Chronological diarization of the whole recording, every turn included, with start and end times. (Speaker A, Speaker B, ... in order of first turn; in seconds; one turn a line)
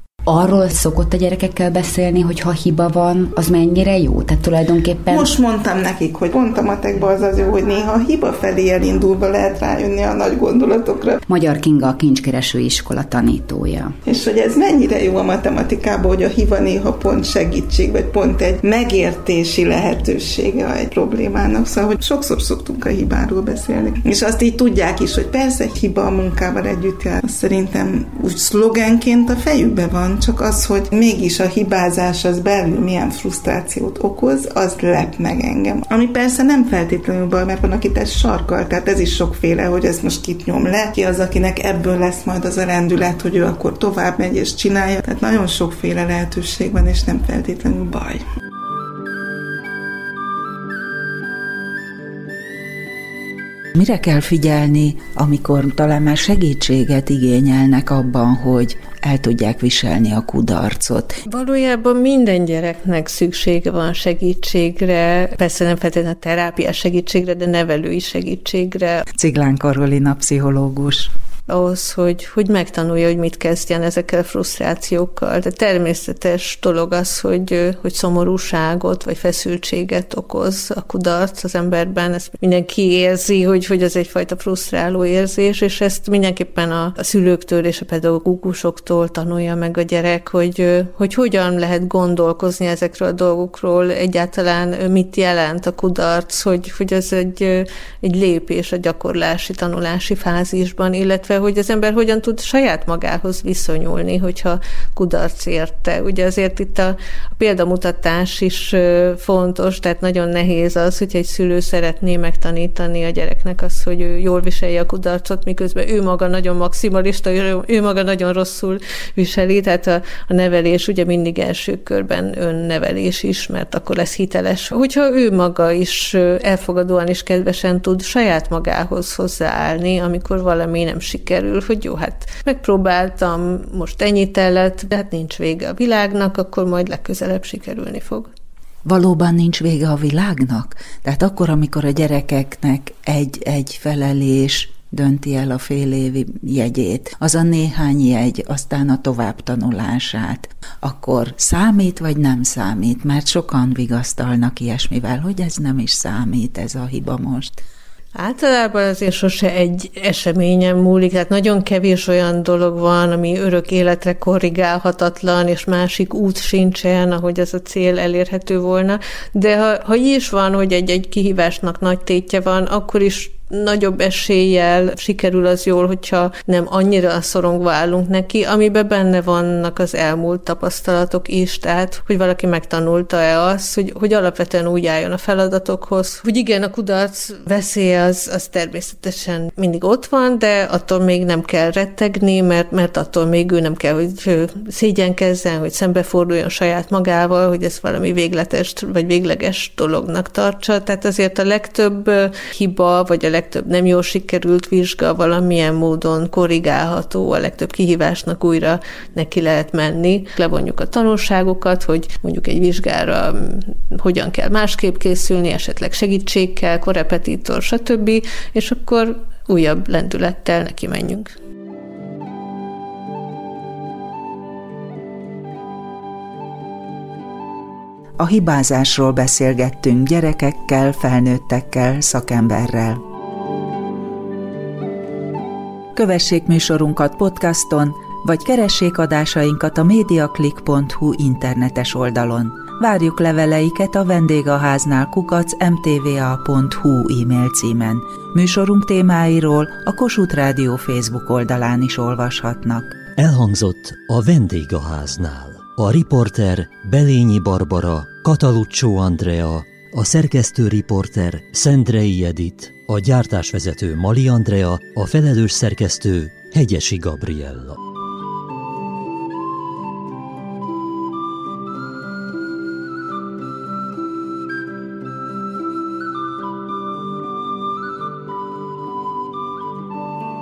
Speaker A: 0.3-5.3
Speaker B: 5.1-11.2
Speaker A: 11.3-13.9
Speaker B: 14.1-48.2
Speaker C: 53.7-61.2
Speaker D: 61.3-69.0
Speaker C: 69.1-71.1
Speaker D: 71.5-138.3
Speaker C: 138.8-157.6
Speaker D: 158.2-221.3
Speaker C: 228.2-233.0
Speaker C: 235.9-253.0
Speaker E: 253.1-267.8